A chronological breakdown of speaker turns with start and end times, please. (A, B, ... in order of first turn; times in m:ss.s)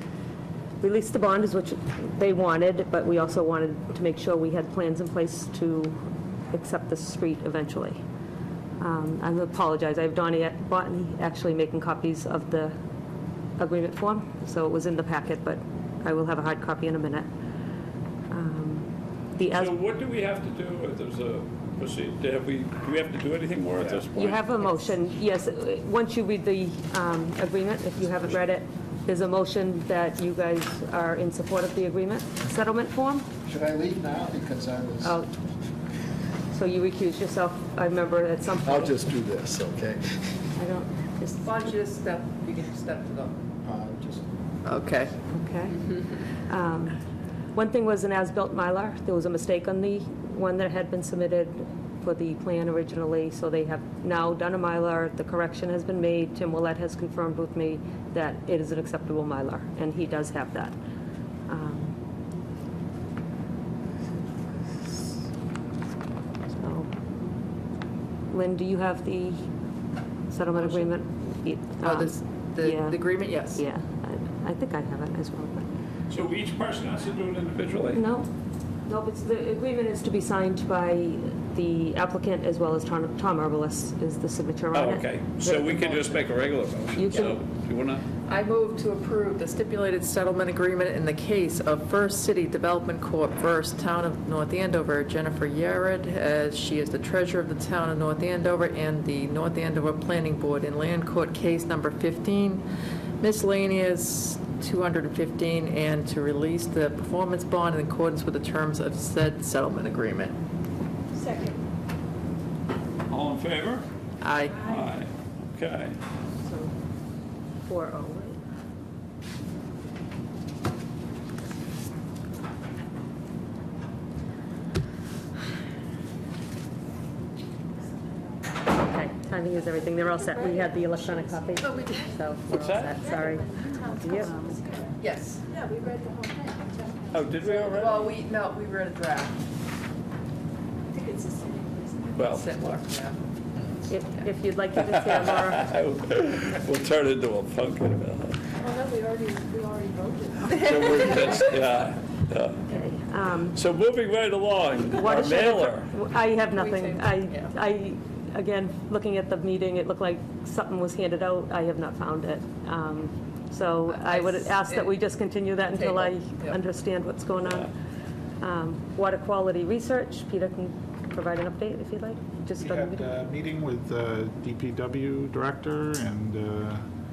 0:00.8-0:06.0 A
0:06.5-0:08.0 A
0:08.8-0:12.8 A
0:13.6-0:17.3 A
0:18.3-0:19.8 A
0:19.5-0:24.4 B
0:24.1-0:33.2 A
0:33.4-0:35.2 C
0:35.0-0:35.3 A
0:36.5-0:39.1 A
0:38.6-0:40.2 C
0:40.6-0:41.7 A
0:41.4-0:43.4 D
0:43.6-0:44.2 C
0:44.6-0:45.1 D
0:45.3-0:45.9 A
0:46.5-0:47.0 A
0:47.5-1:00.7 A
1:01.5-1:02.0 A
1:06.6-1:06.9 A
1:08.3-1:09.4 A
1:10.3-1:13.0 A
1:11.8-1:13.6 D
1:13.5-1:15.6 A
1:16.1-1:18.0 B
1:17.9-1:18.3 A
1:18.9-1:26.2 A
1:24.7-1:28.0 B
1:27.0-1:27.4 A
1:28.3-1:42.6 D
1:43.2-1:50.4 D
1:51.1-1:51.6 E
1:53.1-1:53.8 B
1:54.2-1:54.7 D
1:54.6-1:56.0 B
1:57.6-1:58.4 A
2:08.7-2:14.6 A
2:10.3-2:10.6 D
2:11.6-2:11.9 D
2:12.5-2:13.2 B
2:13.2-2:14.9 E
2:15.0-2:15.4 D
2:15.5-2:17.2 E
2:17.1-2:18.2 B
2:17.4-2:19.4 D
2:20.9-2:22.2 E
2:22.1-2:22.5 B
2:22.2-2:23.2 D
2:23.9-2:25.7 A
2:24.8-2:28.4 B
2:28.6-2:30.5 E
2:30.4-2:32.8 B
2:32.7-2:33.6 A
2:33.5-2:35.9 B
2:34.9-2:47.7 A
2:36.6-2:37.5 D
2:43.9-2:44.9 D
2:45.7-2:46.6 D
2:47.4-2:47.7 B
2:48.4-2:53.1 A
2:52.6-2:56.8 F